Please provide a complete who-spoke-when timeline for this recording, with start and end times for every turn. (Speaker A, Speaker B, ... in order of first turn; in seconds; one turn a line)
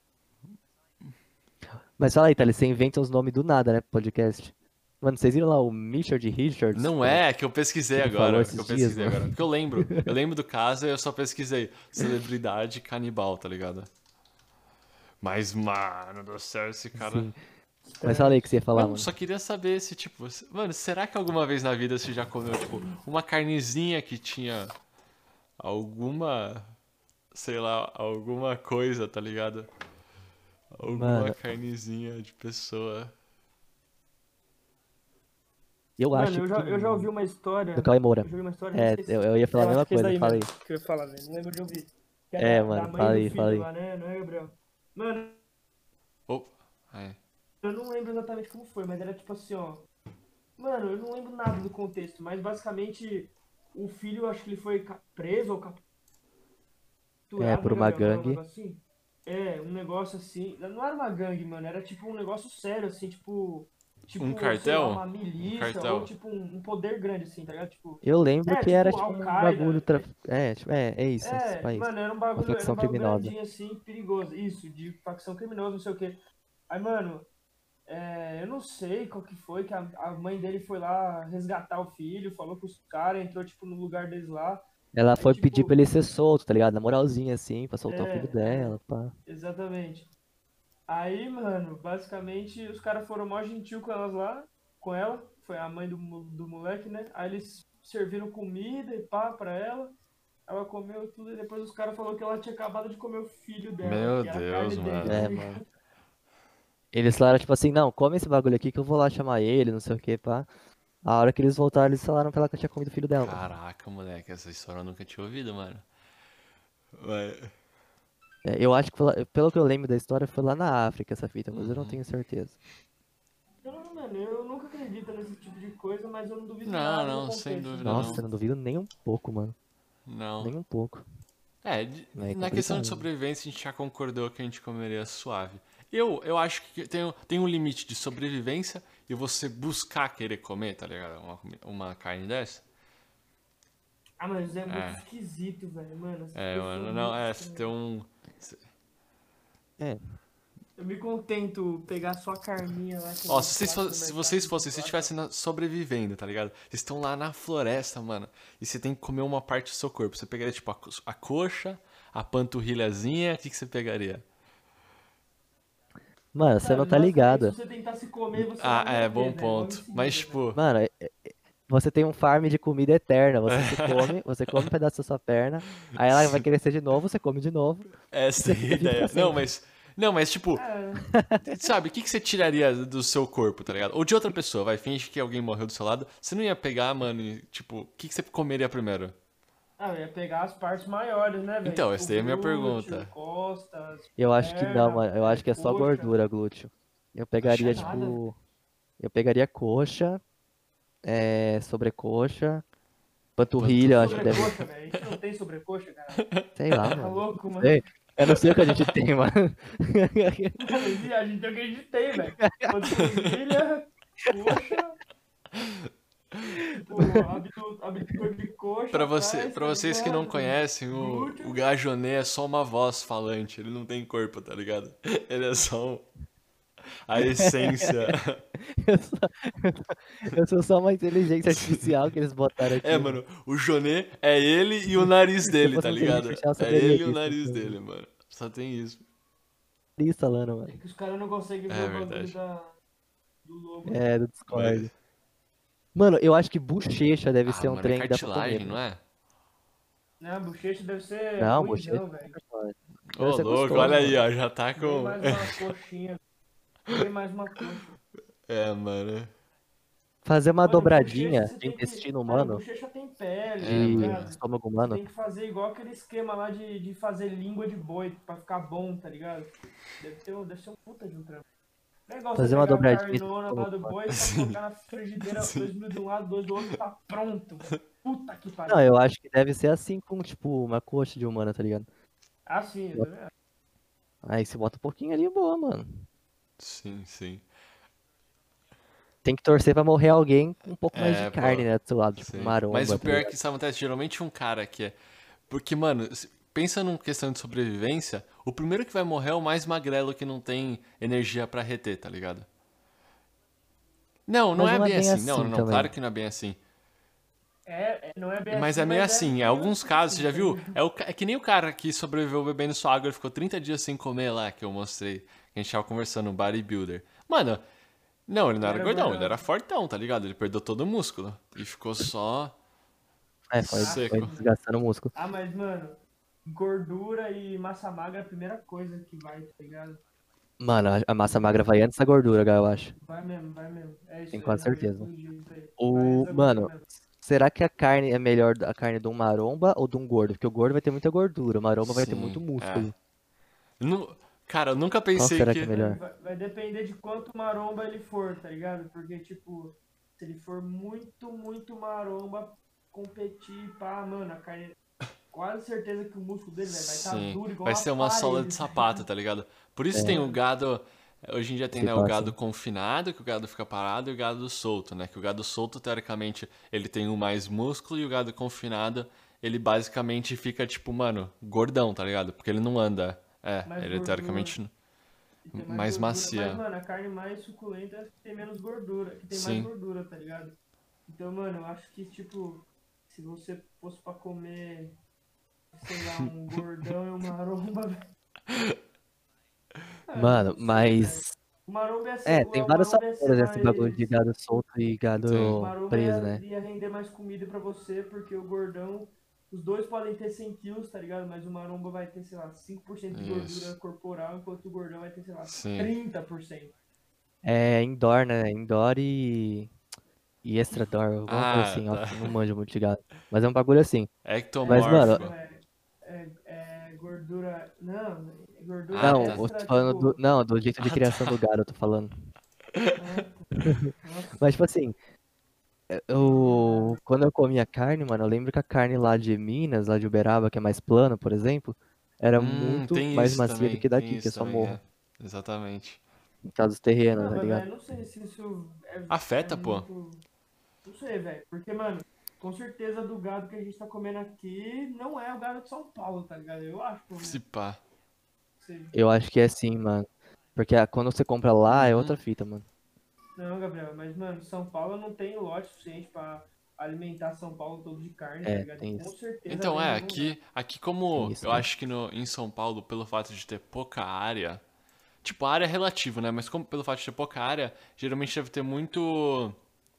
Speaker A: 2.0-7.2
Speaker B: 6.7-13.9
Speaker A: 7.9-9.3
Speaker B: 15.2-17.3
Speaker A: 16.9-17.4
Speaker C: 17.9-18.5
Speaker A: 18.0-19.1
Speaker B: 18.7-24.7
Speaker B: 25.6-26.7
Speaker B: 27.3-29.7
Speaker B: 30.7-33.1
Speaker A: 30.8-31.4
Speaker A: 36.0-37.1
Speaker C: 36.1-45.4
Speaker A: 37.8-40.5
Speaker A: 42.4-43.7
Speaker B: 46.3-47.2
Speaker C: 47.6-49.9
Speaker C: 50.6-55.8
Speaker C: 57.3-70.0
Speaker A: 57.4-58.4
Speaker B: 64.2-66.1
Speaker A: 68.0-73.3
Speaker C: 71.2-76.2
Speaker C: 76.7-77.3
Speaker C: 77.8-84.6
Speaker A: 84.9-89.1
Speaker C: 85.1-85.8
Speaker C: 87.8-90.1
Speaker C: 90.9-99.9
Speaker C: 100.5-105.6
Speaker B: 103.8-105.2
Speaker A: 105.0-105.6
Speaker A: 106.9-110.5
Speaker A: 111.0-113.5
Speaker B: 113.2-115.8
Speaker B: 117.0-117.5
Speaker A: 118.4-122.5
Speaker B: 121.5-122.0
Speaker C: 123.6-128.2
Speaker B: 126.6-128.2
Speaker A: 127.8-129.5
Speaker B: 130.1-130.5
Speaker A: 130.4-131.0
Speaker B: 131.6-142.6
Speaker A: 132.1-133.1
Speaker C: 144.2-147.7
Speaker B: 144.7-145.0
Speaker B: 146.3-148.6
Speaker C: 150.8-155.1
Speaker B: 153.3-164.2
Speaker A: 166.3-167.5
Speaker C: 166.6-170.4
Speaker B: 168.3-170.6
Speaker A: 170.5-179.4
Speaker B: 173.5-174.7
Speaker B: 176.0-176.4
Speaker B: 178.1-180.6
Speaker C: 180.5-181.1
Speaker A: 181.2-181.6
Speaker B: 181.5-189.2
Speaker C: 189.8-196.2
Speaker B: 191.6-193.1
Speaker A: 194.2-198.4
Speaker B: 197.4-198.0
Speaker C: 197.6-198.2
Speaker A: 199.0-200.2
Speaker A: 201.0-202.6
Speaker A: 203.4-204.5
Speaker B: 203.6-205.1
Speaker C: 204.0-206.2
Speaker B: 206.2-206.5
Speaker A: 206.6-210.6
Speaker C: 207.0-207.8
Speaker C: 210.6-215.0
Speaker B: 215.5-215.9
Speaker C: 216.8-221.6
Speaker B: 218.9-226.1
Speaker B: 227.1-228.4
Speaker A: 227.2-233.2
Speaker B: 231.5-231.9
Speaker B: 232.6-239.0
Speaker A: 235.0-237.8
Speaker A: 240.0-240.8
Speaker C: 240.7-242.8
Speaker B: 241.7-242.3
Speaker C: 243.4-244.0
Speaker A: 243.8-244.9
Speaker B: 244.5-244.9
Speaker A: 245.9-248.8
Speaker B: 247.4-249.0
Speaker C: 250.2-252.3
Speaker A: 251.4-254.2
Speaker B: 253.1-255.6
Speaker C: 253.7-254.2
Speaker C: 254.8-256.2
Speaker C: 256.9-257.9
Speaker B: 258.5-259.3
Speaker A: 260.2-262.6
Speaker C: 260.6-271.4
Speaker B: 263.6-264.3
Speaker A: 263.6-265.0
Speaker C: 272.1-278.9
Speaker A: 272.3-273.9
Speaker B: 274.1-274.6
Speaker B: 275.2-275.8
Speaker A: 278.7-281.9
Speaker C: 282.4-283.3
Speaker A: 284.2-286.1
Speaker B: 286.6-287.4
Speaker A: 289.2-293.4
Speaker B: 290.9-294.9
Speaker B: 295.5-302.5
Speaker B: 304.3-306.6
Speaker A: 304.6-305.9
Speaker C: 307.6-310.8
Speaker B: 308.5-317.6
Speaker B: 318.3-322.5
Speaker C: 318.6-319.4
Speaker A: 323.5-325.1
Speaker B: 323.6-324.3
Speaker C: 323.7-324.5
Speaker C: 325.1-330.0
Speaker A: 330.6-332.9
Speaker C: 333.0-337.0
Speaker A: 334.3-335.1
Speaker A: 335.8-336.7
Speaker A: 337.2-342.9
Speaker B: 341.8-342.9
Speaker B: 343.8-345.7
Speaker A: 345.1-346.0
Speaker C: 345.7-354.8
Speaker C: 355.3-359.1
Speaker B: 356.6-374.7
Speaker C: 360.0-360.4
Speaker A: 361.7-362.3
Speaker C: 373.6-374.6
Speaker C: 375.5-380.6
Speaker B: 375.5-376.6
Speaker B: 379.3-379.7
Speaker C: 381.1-384.9
Speaker C: 385.7-388.0
Speaker B: 388.5-388.8
Speaker C: 390.1-394.1
Speaker A: 390.1-391.4
Speaker A: 392.2-396.4
Speaker B: 395.2-395.6
Speaker C: 395.6-406.7
Speaker B: 403.1-403.8
Speaker B: 405.4-405.9
Speaker A: 407.4-409.7
Speaker A: 410.4-414.1
Speaker B: 411.3-412.4
Speaker B: 414.2-415.3
Speaker C: 414.6-420.2
Speaker A: 414.7-415.2
Speaker B: 418.9-419.4
Speaker A: 419.0-422.1
Speaker B: 420.8-421.4
Speaker C: 423.0-423.5
Speaker A: 423.6-424.9
Speaker C: 424.0-424.5
Speaker A: 425.9-434.8
Speaker C: 426.1-427.0
Speaker B: 432.3-436.0
Speaker A: 436.5-437.6
Speaker C: 437.1-440.2
Speaker B: 439.1-439.9
Speaker C: 440.8-447.4
Speaker B: 447.1-447.8
Speaker C: 448.6-448.9
Speaker A: 448.9-452.6
Speaker B: 451.7-452.2
Speaker C: 453.4-460.3
Speaker A: 458.4-459.1
Speaker B: 459.5-464.6
Speaker A: 461.1-461.7
Speaker B: 465.2-469.6